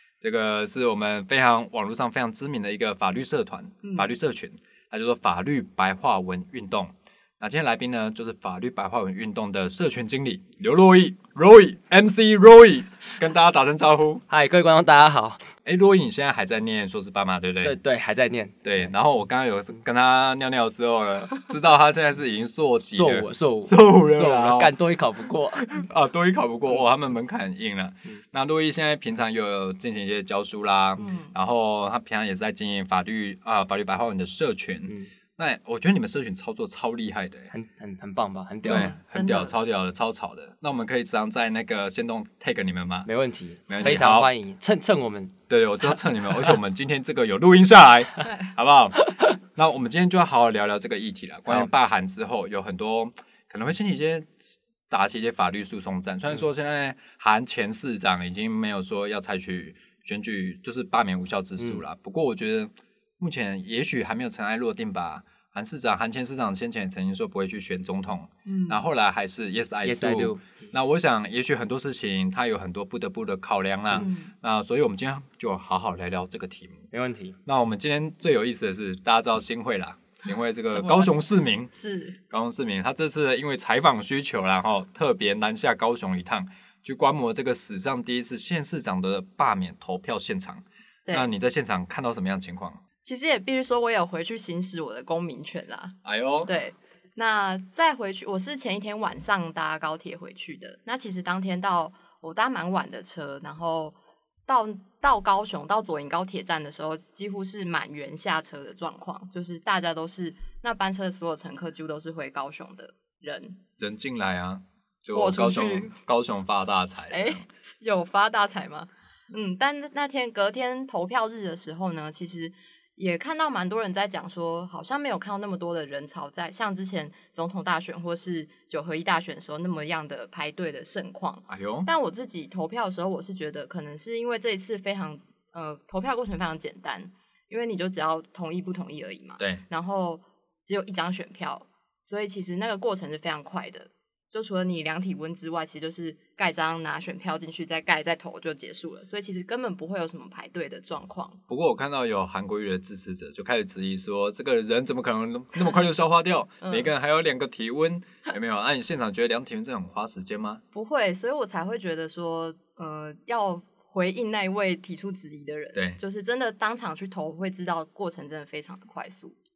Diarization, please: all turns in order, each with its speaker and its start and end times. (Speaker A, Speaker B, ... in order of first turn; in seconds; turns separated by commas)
Speaker A: 0.2-14.2, Speaker B: 3.8-4.1, Speaker C: 14.3-15.4, Speaker A: 15.6-17.8, Speaker C: 17.6-18.9, Speaker A: 18.6-24.7, Speaker C: 22.8-25.7, Speaker A: 25.6-37.5, Speaker B: 31.0-31.3, Speaker C: 37.5-38.9, Speaker A: 38.6-43.1, Speaker B: 38.7-39.5, Speaker C: 43.1-45.4, Speaker A: 43.7-44.3, Speaker A: 45.5-76.9, Speaker B: 68.5-68.8, Speaker C: 69.8-70.4, Speaker B: 74.0-74.3, Speaker C: 76.9-77.4, Speaker A: 77.5-81.7, Speaker B: 80.7-81.1, Speaker B: 81.7-82.2, Speaker A: 82.3-92.8, Speaker B: 93.0-104.0, Speaker A: 96.0-96.5, Speaker B: 104.5-113.6, Speaker A: 113.8-117.5, Speaker B: 115.1-116.0, Speaker B: 117.1-151.4, Speaker A: 131.5-131.9, Speaker A: 151.5-160.6, Speaker B: 156.6-156.9, Speaker B: 160.7-169.4, Speaker A: 165.7-166.0